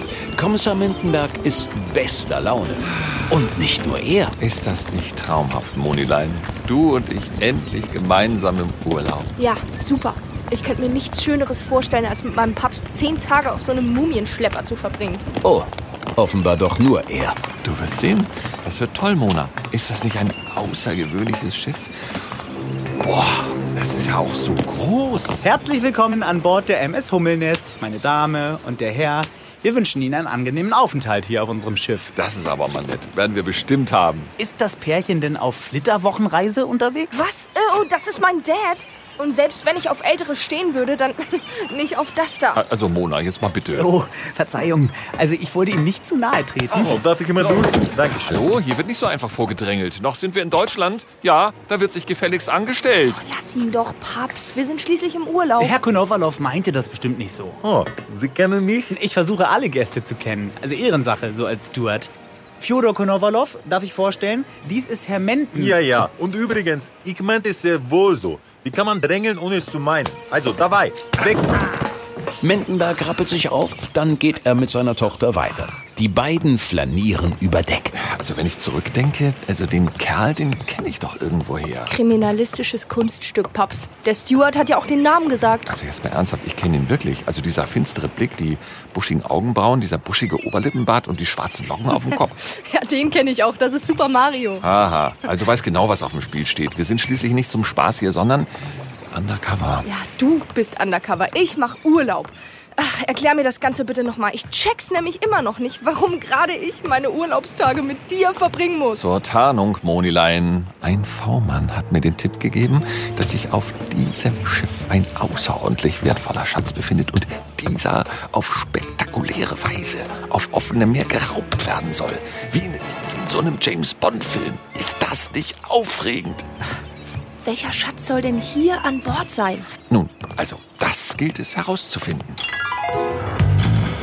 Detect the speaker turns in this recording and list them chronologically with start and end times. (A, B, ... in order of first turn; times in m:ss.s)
0:00.3-0:04.3 A
0:04.4-0:09.3 B
0:09.4-0:15.2 C
0:15.4-0:17.4 A
0:17.6-0:22.2 B
0:23.0-0:25.5 B
0:25.4-0:32.1 D
0:32.1-0:34.3 B
0:34.4-0:37.2 D
0:37.1-0:42.6 C
0:42.5-0:43.9 B
0:43.7-0:46.9 D
0:46.7-0:53.2 B
0:46.7-0:48.4 E
0:53.2-0:55.7 C
0:55.6-0:57.6 D
0:57.6-0:59.0 E
0:58.9-1:05.8 D
1:05.5-1:11.7 E
1:12.4-1:18.0 A
1:17.9-1:21.9 B
1:21.9-1:25.7 C
1:25.6-1:32.4 B
1:32.4-1:34.6 C
1:34.6-1:38.5 B
1:39.1-1:39.8 B
1:39.8-1:49.1 C
1:48.9-2:06.4 B
2:07.4-2:09.7 C
2:09.9-2:12.4 B